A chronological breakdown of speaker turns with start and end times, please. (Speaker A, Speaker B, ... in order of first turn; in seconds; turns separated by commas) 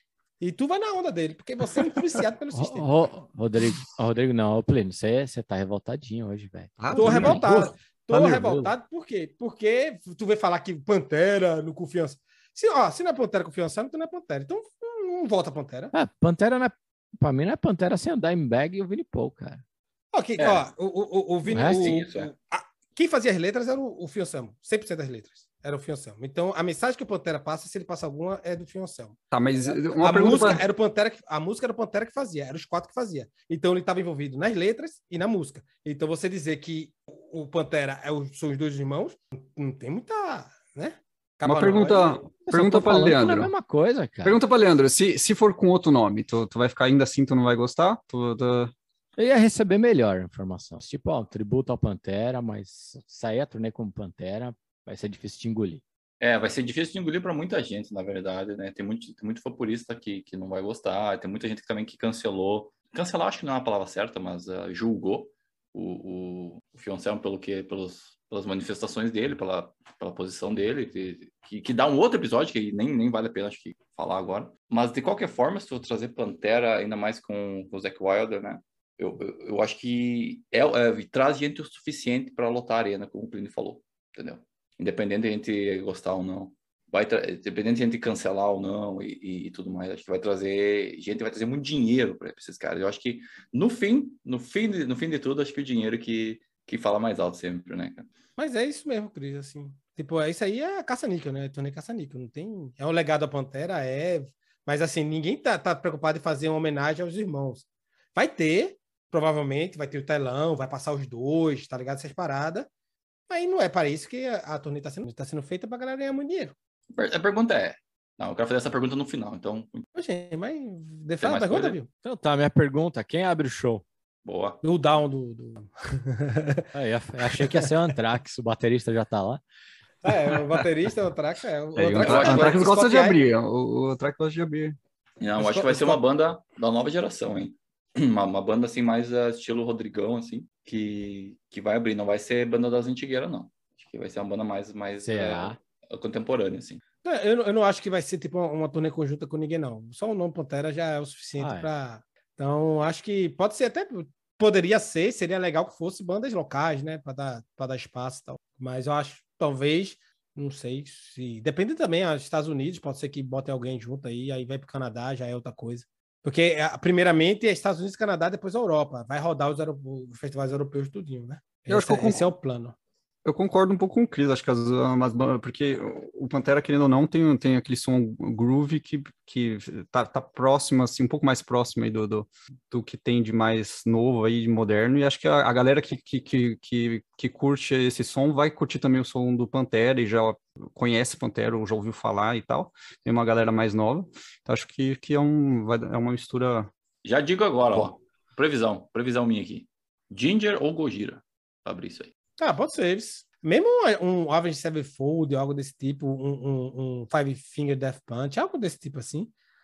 Speaker A: 0.4-3.1, Speaker B: 2.5-7.7, Speaker C: 6.8-8.7, Speaker A: 6.9-15.9, Speaker B: 15.9-19.6, Speaker A: 20.1-42.3, Speaker D: 20.4-20.6, Speaker B: 21.5-21.8, Speaker D: 21.5-22.3, Speaker C: 29.3-30.6, Speaker C: 41.4-43.5, Speaker B: 42.5-44.4, Speaker C: 44.2-48.7, Speaker B: 49.2-55.8, Speaker D: 56.2-98.1, Speaker A: 98.4-112.7, Speaker A: 113.3-116.5, Speaker D: 116.9-119.8, Speaker A: 119.9-121.9, Speaker D: 121.2-121.8, Speaker B: 122.0-123.8, Speaker D: 124.2-124.6, Speaker A: 124.6-126.7, Speaker B: 126.7-129.4, Speaker A: 127.2-127.7, Speaker A: 130.0-133.2, Speaker C: 131.8-134.8, Speaker D: 132.0-132.7, Speaker D: 135.2-146.8, Speaker A: 135.4-136.0, Speaker B: 145.0-145.6, Speaker A: 147.0-172.8, Speaker B: 151.4-151.7, Speaker C: 171.7-172.3, Speaker C: 173.2-196.7, Speaker D: 197.0-202.1, Speaker A: 202.4-209.3